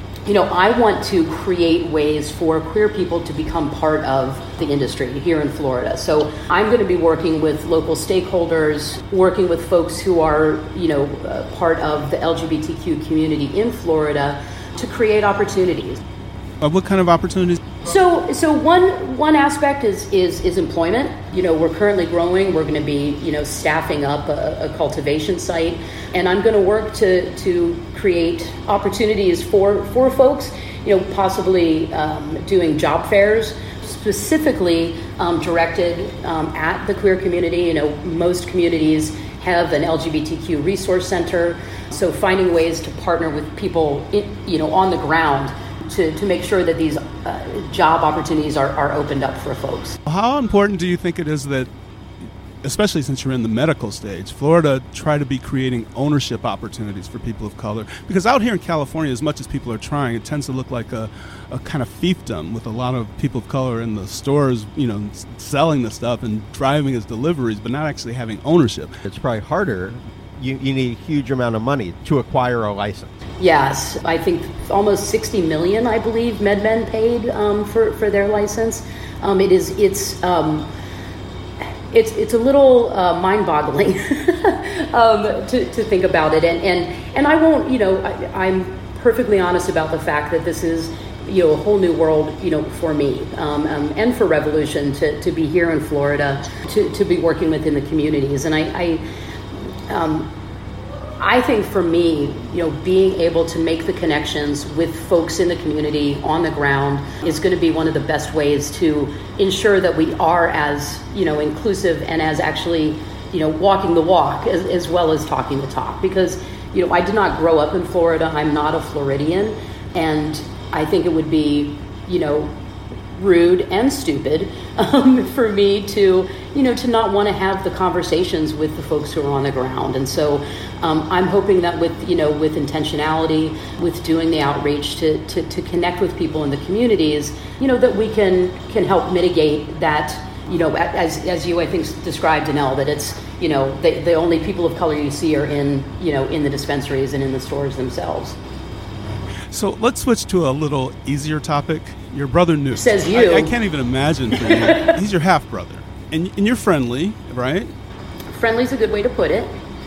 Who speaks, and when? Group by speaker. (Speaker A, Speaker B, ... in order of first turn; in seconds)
Speaker A: 0.3-16.0, 17.9-50.0, 73.4-80.7, 81.9-99.0, 99.9-100.3, 101.2-122.5, 123.2-148.4, 152.8-153.6, 154.4-155.0, 158.3-159.6
Speaker B: 16.6-17.6, 50.1-51.7, 52.6-69.0, 149.5-157.7
Speaker C: 69.1-73.1